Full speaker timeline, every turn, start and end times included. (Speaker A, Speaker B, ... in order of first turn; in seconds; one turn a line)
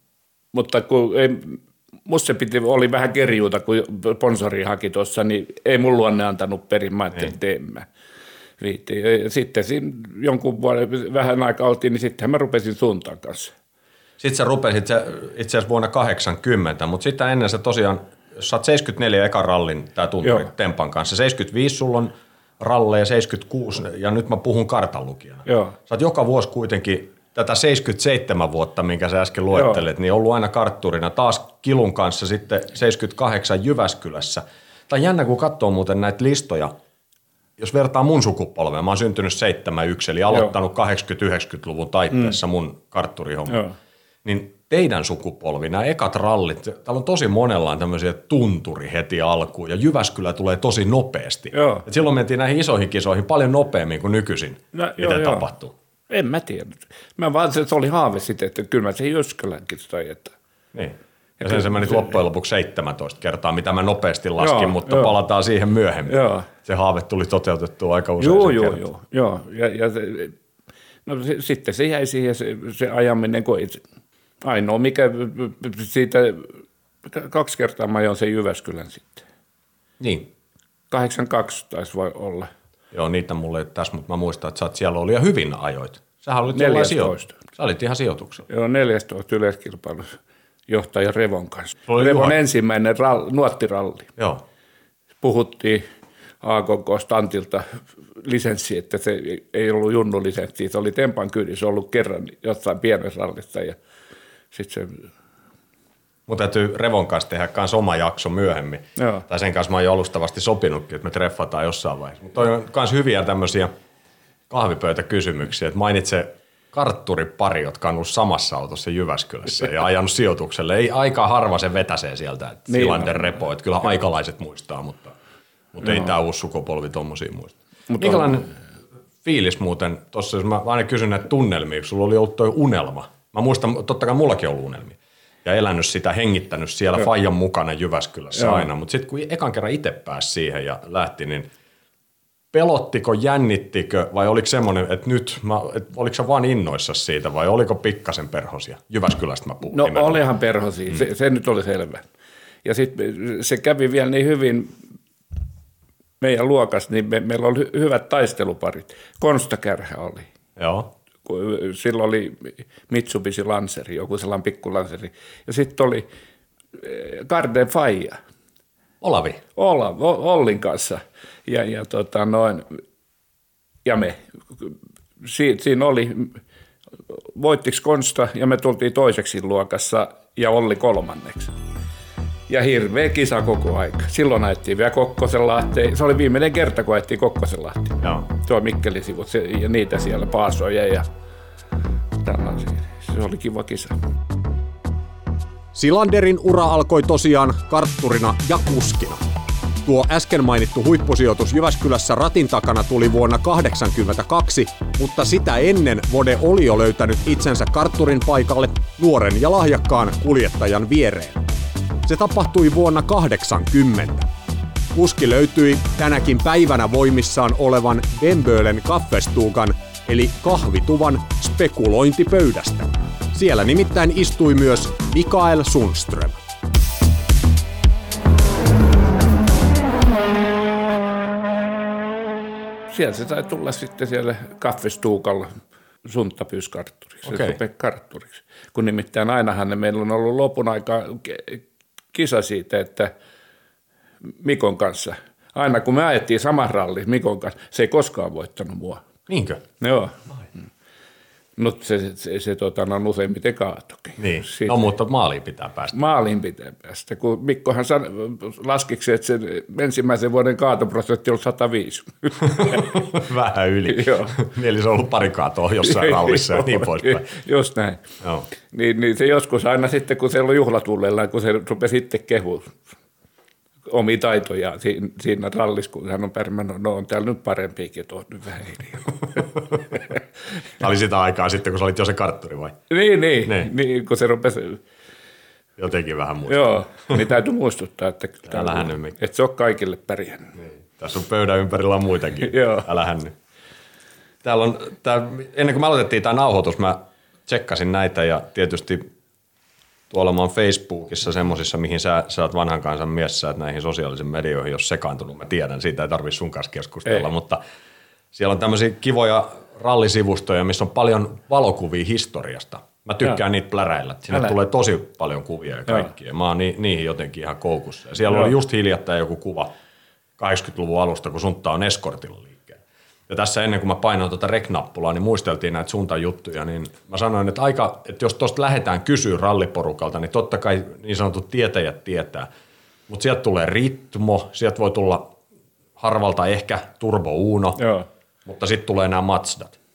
Speaker A: 0.5-7.9
Speaker A: 8.6-13.5
Speaker B: 14.2-36.7
Speaker A: 20.2-20.5
Speaker A: 25.4-25.8
Speaker A: 29.5-29.8
Speaker B: 37.6-43.6
Speaker A: 43.5-43.7
Speaker B: 44.2-55.7
Speaker A: 51.5-51.9
Speaker A: 54.7-55.5
Speaker A: 56.1-60.3
Speaker B: 60.7-68.8
Speaker A: 61.4-62.1
Speaker A: 64.4-65.1
Speaker A: 66.1-66.5
Speaker A: 68.2-70.3
Speaker A: 71.0-73.8
Speaker A: 74.4-79.2
Speaker B: 80.0-80.3
Speaker A: 80.9-82.5
Speaker B: 82.9-88.4
Speaker A: 86.5-87.3
Speaker A: 88.5-90.2
Speaker A: 90.7-94.1
Speaker B: 91.9-92.3
Speaker A: 95.2-95.8
Speaker A: 96.4-97.6
Speaker A: 98.2-103.8
Speaker A: 104.5-105.1
Speaker B: 106.3-113.7
Speaker A: 109.0-109.2
Speaker B: 114.5-125.1
Speaker A: 122.7-123.2
Speaker B: 125.7-128.5
Speaker A: 127.9-128.4
Speaker B: 129.2-141.5
Speaker A: 138.3-138.7
Speaker B: 142.5-150.2
Speaker A: 149.7-152.0
Speaker A: 152.6-154.7
Speaker A: 156.2-160.3
Speaker B: 160.6-160.9
Speaker A: 161.2-166.1
Speaker A: 166.7-168.2
Speaker B: 169.0-169.4
Speaker A: 169.6-172.8
Speaker A: 173.8-176.4
Speaker A: 177.1-181.5
Speaker A: 182.5-191.1
Speaker B: 188.0-188.3
Speaker A: 192.2-193.9
Speaker C: 195.7-199.2
Speaker C: 199.8-211.5
Speaker C: 212.0-214.3
Speaker C: 214.9-226.3
Speaker A: 232.9-243.1
Speaker B: 237.2-237.6
Speaker A: 244.4-249.0
Speaker B: 249.3-249.6
Speaker A: 249.8-250.2
Speaker A: 251.6-254.8
Speaker B: 254.2-255.9
Speaker A: 255.9-263.0
Speaker B: 262.4-267.3
Speaker A: 263.9-264.3
Speaker A: 265.8-268.0
Speaker A: 268.7-272.8
Speaker A: 273.9-279.4
Speaker B: 280.8-282.8
Speaker A: 282.9-284.8
Speaker B: 283.4-283.7
Speaker B: 285.8-287.2
Speaker A: 286.5-290.5
Speaker B: 288.5-289.1
Speaker B: 290.6-293.3
Speaker A: 292.4-292.9
Speaker B: 294.4-299.1
Speaker B: 300.1-307.6
Speaker B: 308.3-319.7
Speaker B: 320.4-332.5
Speaker B: 333.1-335.3
Speaker B: 336.0-337.8
Speaker A: 337.8-338.1
Speaker B: 338.4-339.8